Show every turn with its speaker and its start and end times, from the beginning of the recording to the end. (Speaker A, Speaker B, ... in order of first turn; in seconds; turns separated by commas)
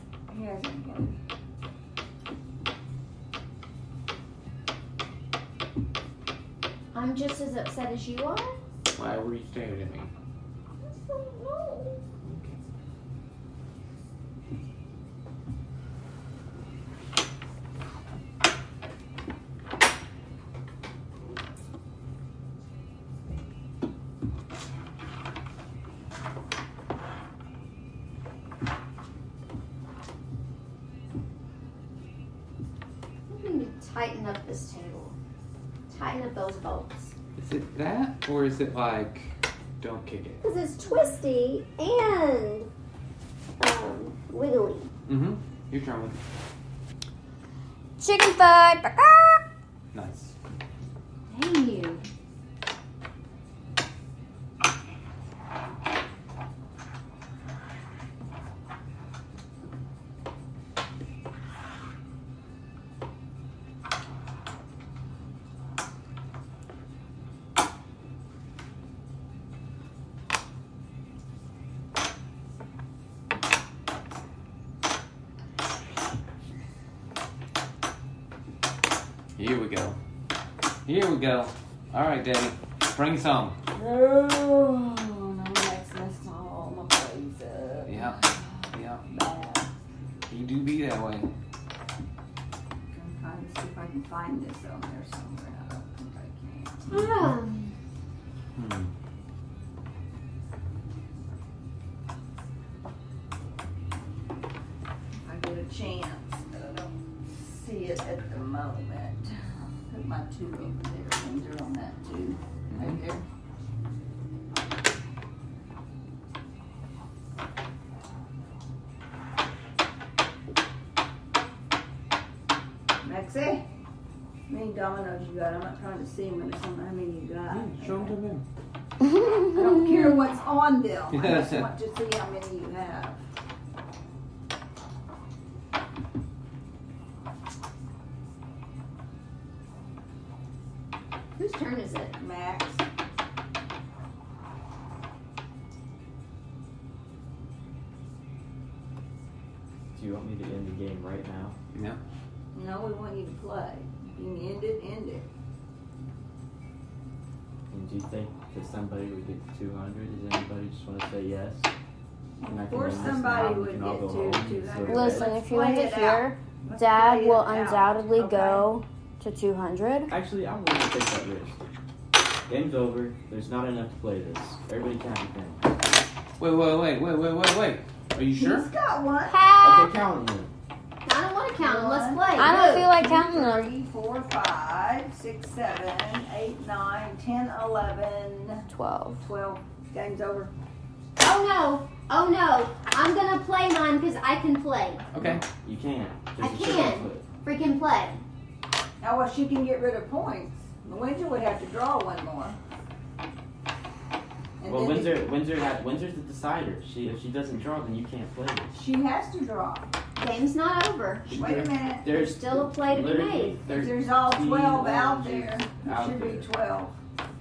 Speaker A: 0.3-1.2, Speaker B: 6.9-8.6, Speaker C: 8.9-10.1, Speaker A: 10.8-12.0, Speaker C: 12.2-12.6, Speaker B: 33.3-35.2, Speaker B: 35.9-37.1, Speaker C: 37.4-40.4, Speaker B: 40.4-42.7, Speaker B: 43.6-44.9, Speaker C: 45.1-46.2, Speaker D: 48.0-49.4, Speaker C: 49.9-50.4, Speaker B: 51.3-52.1, Speaker C: 79.4-80.0, Speaker C: 80.9-83.6, Speaker A: 83.7-89.7, Speaker C: 87.9-88.2, Speaker C: 88.7-89.1, Speaker C: 90.3-91.3, Speaker A: 92.9-96.9, Speaker B: 96.9-97.8, Speaker C: 98.6-98.9, Speaker A: 105.2-113.2, Speaker C: 112.7-113.0, Speaker A: 123.0-123.7, Speaker A: 124.5-128.1, Speaker C: 127.5-128.4, Speaker D: 129.0-130.0, Speaker A: 129.5-133.2, Speaker C: 131.1-131.7, Speaker B: 141.4-142.2, Speaker A: 142.2-142.8, Speaker E: 149.9-151.6, Speaker C: 151.7-152.0, Speaker A: 152.5-155.3, Speaker E: 157.7-161.7, Speaker A: 162.4-168.7, Speaker E: 162.4-165.4, Speaker D: 164.9-170.1, Speaker E: 170.1-171.6, Speaker E: 172.5-175.7, Speaker C: 176.4-178.7, Speaker A: 178.3-179.4, Speaker D: 179.5-179.8, Speaker E: 179.6-180.5, Speaker B: 181.1-182.9, Speaker A: 181.6-188.7, Speaker D: 182.3-183.7, Speaker D: 188.7-189.2, Speaker A: 189.2-190.5, Speaker B: 191.2-195.1, Speaker C: 195.1-195.4, Speaker E: 195.2-197.2, Speaker B: 196.4-198.2, Speaker A: 199.0-202.6, Speaker A: 204.6-205.3, Speaker E: 204.7-208.7, Speaker A: 208.7-209.9, Speaker B: 210.2-211.3, Speaker E: 211.3-216.5, Speaker A: 211.3-212.1, Speaker B: 212.1-213.6, Speaker A: 213.7-216.9